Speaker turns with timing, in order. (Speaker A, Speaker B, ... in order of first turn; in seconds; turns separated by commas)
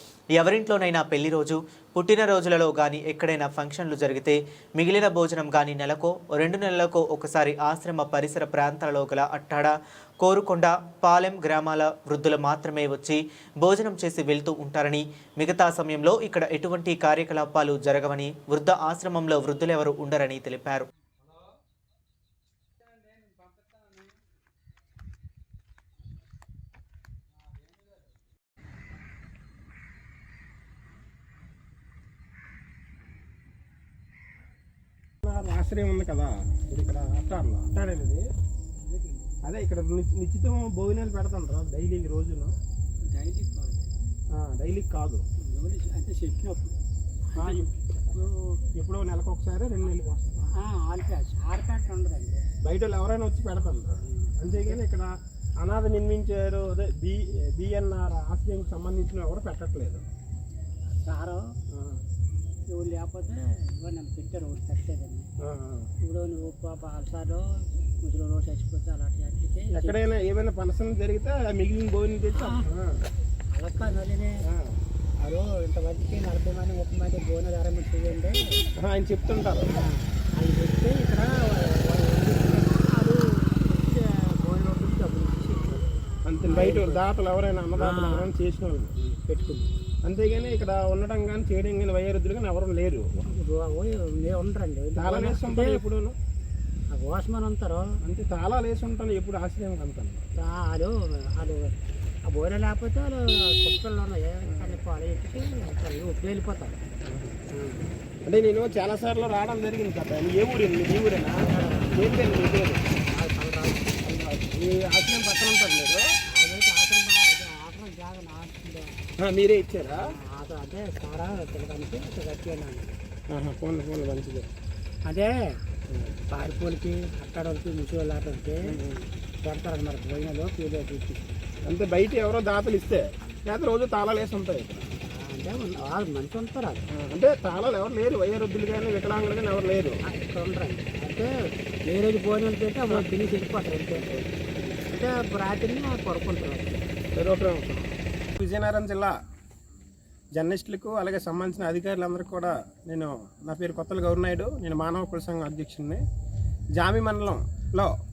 Speaker A: 0.3-20.9, Speaker B: 35.2-38.2, Speaker C: 38.8-39.3, Speaker B: 39.4-42.5, Speaker C: 43.0-43.9, Speaker B: 44.3-45.2, Speaker C: 45.4-46.8, Speaker C: 47.3-48.6, Speaker B: 47.4-47.7, Speaker B: 48.7-50.5, Speaker C: 50.5-52.5, Speaker B: 52.6-60.0, Speaker C: 54.0-54.8, Speaker C: 61.0-61.5, Speaker B: 61.7-62.0, Speaker C: 62.7-65.3, Speaker B: 65.4-65.9, Speaker C: 66.0-67.5, Speaker C: 68.0-70.0, Speaker B: 69.7-73.0, Speaker C: 72.3-72.7, Speaker C: 73.5-74.4, Speaker B: 74.4-74.8, Speaker C: 75.2-78.7, Speaker B: 78.8-79.7, Speaker C: 79.7-85.8, Speaker B: 86.2-88.9, Speaker C: 86.5-87.0, Speaker C: 87.8-88.3, Speaker C: 89.0-89.7, Speaker B: 90.0-93.3, Speaker C: 93.3-95.8, Speaker B: 95.0-96.2, Speaker C: 96.9-97.9, Speaker B: 98.0-100.3, Speaker C: 100.4-101.7, Speaker C: 102.3-106.8, Speaker B: 104.5-104.8, Speaker B: 107.1-107.4, Speaker C: 107.5-107.9, Speaker B: 108.2-112.8, Speaker C: 111.4-114.0, Speaker B: 114.0-116.0, Speaker C: 116.3-119.0, Speaker B: 119.2-120.1, Speaker C: 119.9-123.0, Speaker B: 123.3-124.5, Speaker C: 125.0-125.3, Speaker C: 126.3-128.8, Speaker B: 128.7-129.1, Speaker C: 129.4-131.4, Speaker B: 131.7-134.9, Speaker C: 135.1-136.9, Speaker B: 136.9-140.0, Speaker C: 140.1-141.3, Speaker C: 141.8-144.1, Speaker B: 143.9-144.5, Speaker C: 144.7-146.9, Speaker B: 147.2-149.2, Speaker B: 150.4-156.0, Speaker B: 156.8-157.9